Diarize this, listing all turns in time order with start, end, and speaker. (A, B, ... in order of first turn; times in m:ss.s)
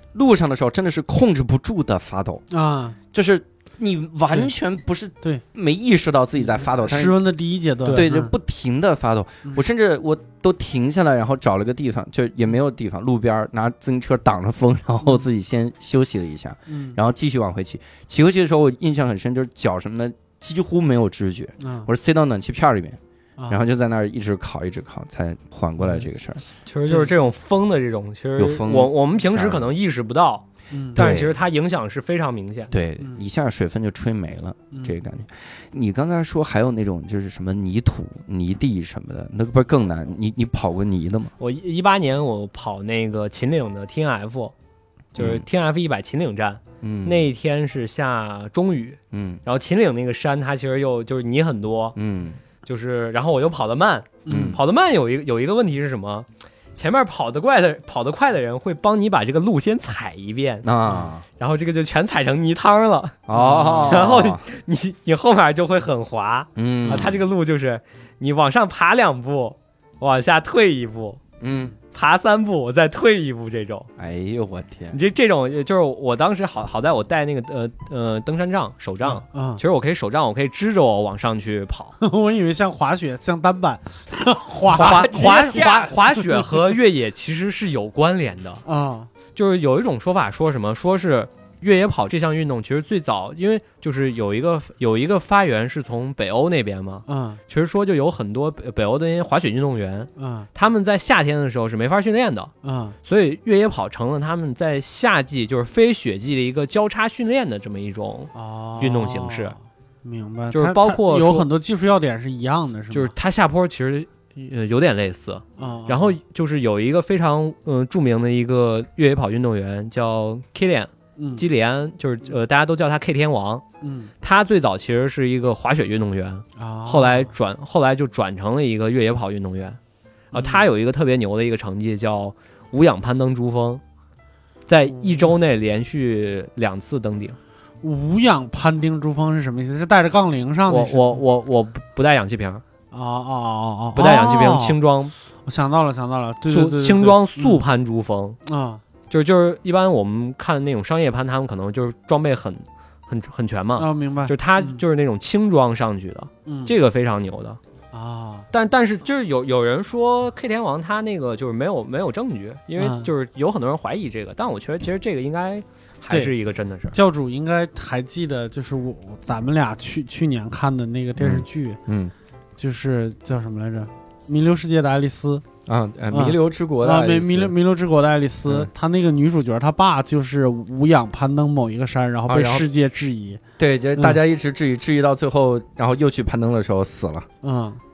0:00.1-0:02.4 A
0:02.5-0:03.0 B
0:03.1-0:07.2 A
0:06.5-0:08.3 B
0:07.9-0:26.4 A
0:16.7-0:17.0 B
0:21.6-0:21.9 B
0:26.7-0:32.7 C
0:28.4-0:29.7 A
0:30.7-0:31.0 B
0:31.0-0:31.4 A
0:32.7-0:41.3 A
0:41.4-0:44.5 C
0:45.2-0:52.0 C
0:45.2-0:45.4 A
0:46.8-0:47.2 A
0:49.1-0:49.4 A
0:52.0-0:52.4 A
0:52.6-1:00.7 C
0:54.3-0:54.6 B
0:54.3-0:54.6 A
1:00.6-1:01.2 A
1:01.4-1:03.2 C
1:03.3-1:04.4 A
1:03.3-1:04.0 B
1:03.8-1:11.2 C
1:06.6-1:07.2 A
1:06.9-1:07.2 B
1:11.4-1:11.8 A
1:11.9-1:13.9 C
1:14.0-1:15.0 A
1:14.9-1:22.0 C
1:19.2-1:19.6 B
1:22.0-1:26.5 B
1:24.6-1:25.9 A
1:24.7-1:28.6 C
1:28.6-1:29.1 B
1:29.3-1:42.5 C
1:37.1-1:37.4 B
1:40.2-1:40.5 B
1:42.6-1:43.0 B
1:43.0-1:49.6 C
1:48.3-1:53.1 B
1:50.5-1:51.5 C
1:52.9-2:03.6 C
1:55.6-1:56.2 B
2:01.2-2:01.4 B
2:03.8-2:04.1 B
2:04.2-2:09.8 C
2:06.6-2:07.3 B
2:10.3-2:10.7 B
2:10.3-2:13.8 C
2:14.7-2:17.4 C
2:14.9-2:15.3 B
2:17.8-2:21.2 B
2:20.7-2:22.6 C
2:22.9-2:24.8 B
2:24.0-2:25.1 C
2:25.5-2:27.6 B
2:26.5-2:28.4 C
2:28.5-2:28.8 B
2:29.1-2:37.6 C
2:33.8-2:34.8 B
2:36.5-2:36.7 B
2:37.9-2:38.5 B
2:38.5-2:47.0 C
2:42.8-2:43.1 B
2:46.9-2:51.8 B
2:51.2-2:52.1 A
2:52.6-2:55.4 B
2:55.7-2:57.6 A
2:56.1-3:03.4 B
3:02.3-3:02.7 A
3:03.6-3:07.3 A
3:07.4-3:07.8 B